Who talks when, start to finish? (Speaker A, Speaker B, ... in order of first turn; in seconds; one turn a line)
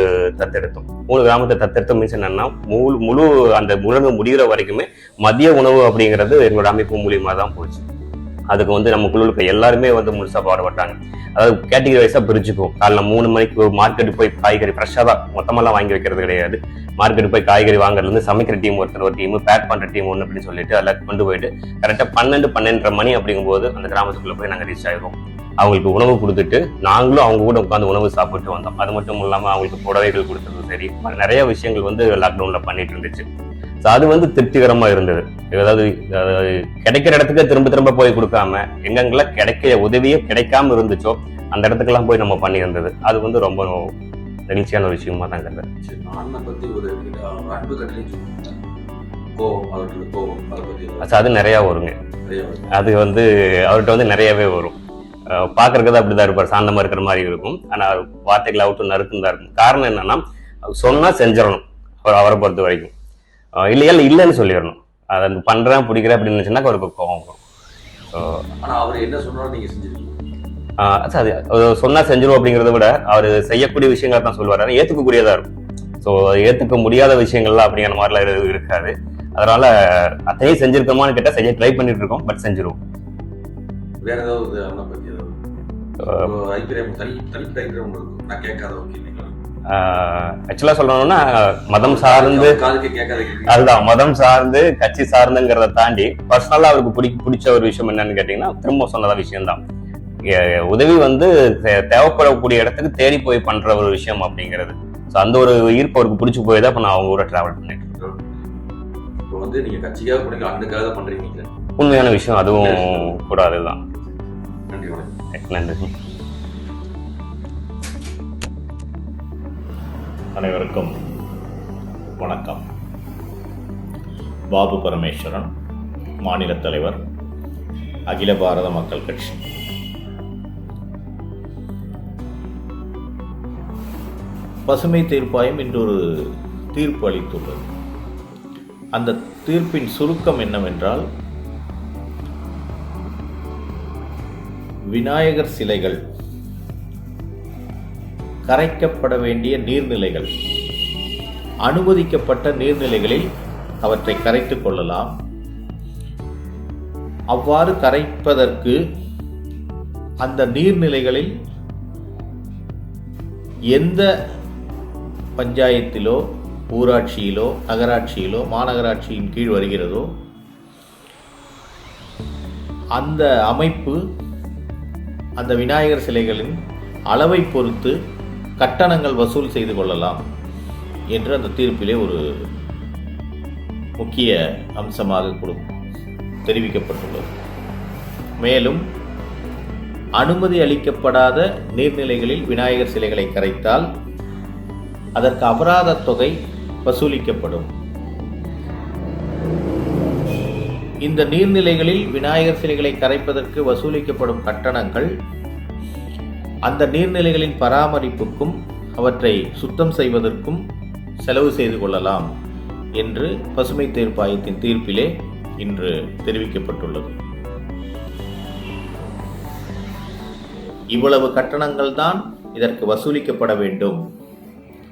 Speaker A: 0.3-7.8
Speaker A: 8.5-33.2
Speaker A: 33.8-43.9
Speaker A: 44.5-45.6
Speaker B: 45.8-48.6
Speaker B: 49.4-51.2
Speaker A: 51.0-51.9
Speaker B: 52.2-52.7
Speaker A: 52.7-54.8
Speaker A: 55.4-60.2
Speaker A: 60.8-62.9
Speaker A: 63.6-67.4
Speaker B: 68.6-70.2
Speaker A: 70.8-75.5
Speaker A: 76.0-79.7
Speaker A: 80.3-82.8
Speaker B: 84.0-85.3
Speaker B: 86.0-89.3
Speaker A: 89.7-92.6
Speaker B: 91.8-93.9
Speaker A: 93.5-99.6
Speaker A: 100.3-108.0
Speaker B: 109.3-111.5
Speaker A: 111.8-113.8
Speaker B: 112.5-113.2
Speaker B: 114.7-115.1
Speaker A: 115.3-115.9
Speaker C: 120.3-120.9
Speaker C: 122.2-122.6
Speaker C: 124.5-125.5
Speaker C: 126.2-127.0
Speaker C: 128.1-129.4
Speaker C: 134.7-136.0
Speaker C: 136.7-137.7
Speaker C: 138.9-141.0
Speaker C: 144.9-146.0
Speaker C: 148.5-150.3
Speaker C: 151.6-153.2
Speaker C: 153.8-155.1
Speaker C: 157.3-158.8
Speaker C: 160.2-161.3
Speaker C: 163.7-164.1
Speaker C: 165.4-166.2
Speaker C: 166.7-170.1
Speaker C: 172.9-174.0
Speaker C: 175.4-176.6
Speaker C: 177.1-177.9
Speaker C: 178.6-180.2
Speaker C: 181.1-182.2
Speaker C: 184.0-185.7
Speaker C: 186.4-187.3
Speaker C: 188.4-188.8
Speaker C: 190.2-193.9
Speaker C: 195.2-196.3
Speaker C: 196.8-197.7
Speaker C: 201.0-205.1
Speaker C: 206.7-210.6
Speaker C: 211.2-212.2
Speaker C: 213.0-217.2
Speaker C: 220.9-224.0